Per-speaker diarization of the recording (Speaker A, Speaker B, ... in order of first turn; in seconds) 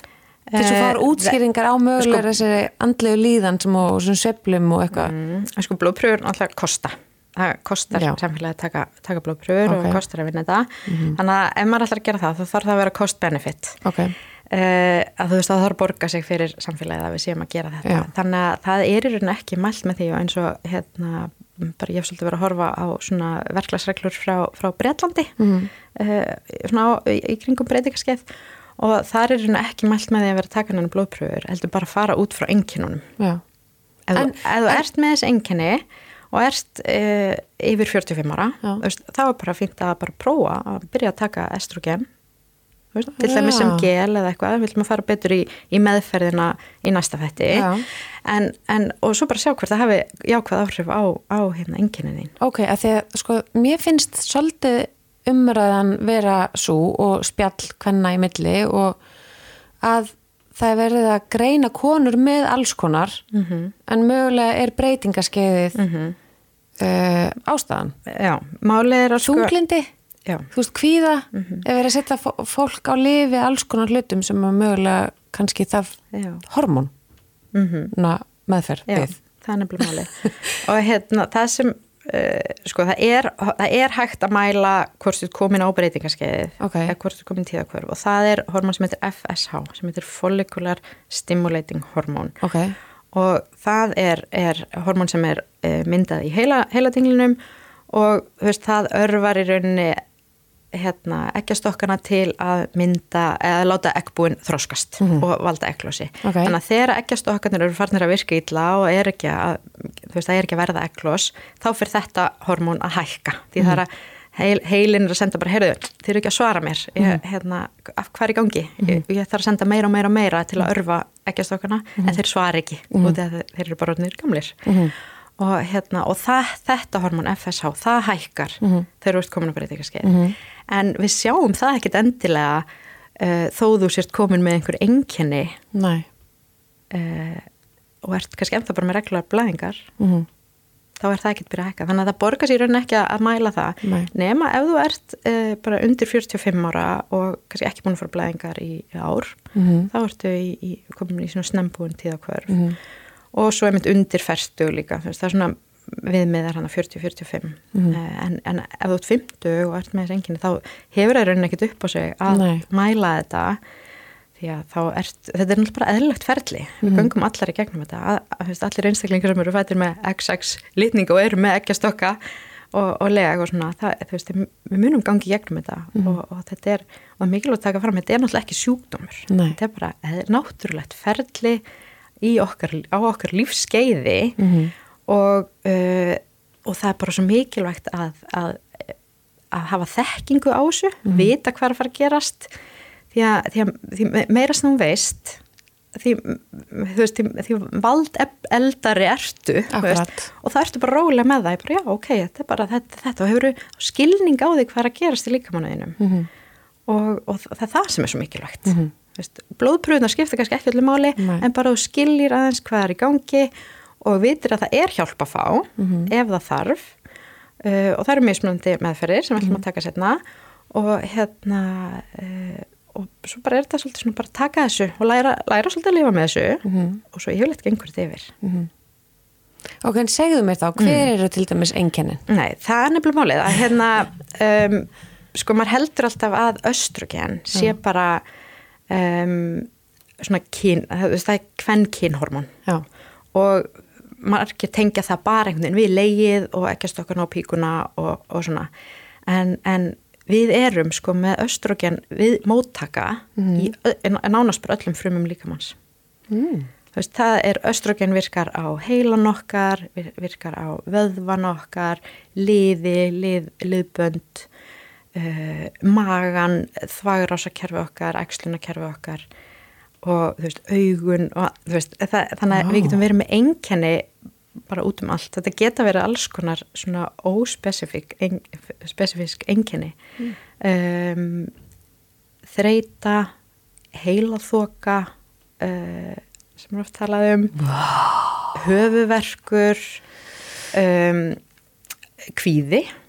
Speaker A: 0.5-1.4, 2.0-2.3, 4.9-13.8, 14.5-25.4, 25.9-33.1, 34.1-42.1, 42.9-52.3, 63.3-63.7, 65.8-66.2, 68.1-69.5, 71.3-71.6, 76.1-76.4, 77.5-77.9, 78.9-92.4, 93.1-97.4, 97.9-100.0, 100.7-124.8, 125.4-132.7, 133.2-135.6, 136.9-137.5, 138.0-139.9, 141.0-152.8, 153.3-163.6, 164.4-172.2, 172.7-181.6, 182.2-184.4, 185.1-188.9, 189.5-192.5, 193.1-195.4, 195.9-206.0, 206.9-216.9, 217.6-220.2, 220.7-228.3, 230.8-231.1, 232.3-238.2, 238.9-239.7, 240.2-242.6, 243.3-248.7, 249.3-255.8, 256.9-264.5, 265.1-269.3, 270.0-274.1, 274.7-280.0, 280.6-281.5, 282.5-283.3, 283.9-287.7, 288.5-290.0, 290.7-291.4, 292.4-292.9
Speaker B: 0.6-5.1, 7.9-8.2, 9.7-10.0, 10.9-11.2, 13.8-14.2, 25.4-25.7, 34.1-34.8, 43.2-43.9, 47.5-47.9, 52.4-59.0, 59.8-63.2, 63.9-65.8, 66.8-67.9, 69.2-69.9, 70.5-76.9, 77.9-79.1, 86.6-86.9, 92.4-92.8, 106.2-106.5, 124.7-124.9, 128.6-128.9, 130.0-130.3, 135.7-136.1, 140.0-140.3, 143.8-144.1, 149.6-149.9, 152.5-152.8, 162.3-162.6, 166.8-167.1, 179.3-179.6, 184.4-184.7, 199.7-200.3, 206.0-206.3, 211.2-211.4, 215.8-216.1, 226.7-227.0, 228.4-228.7, 229.8-232.2, 253.4-253.7, 256.3-256.7, 272.6-273.0, 287.6-288.5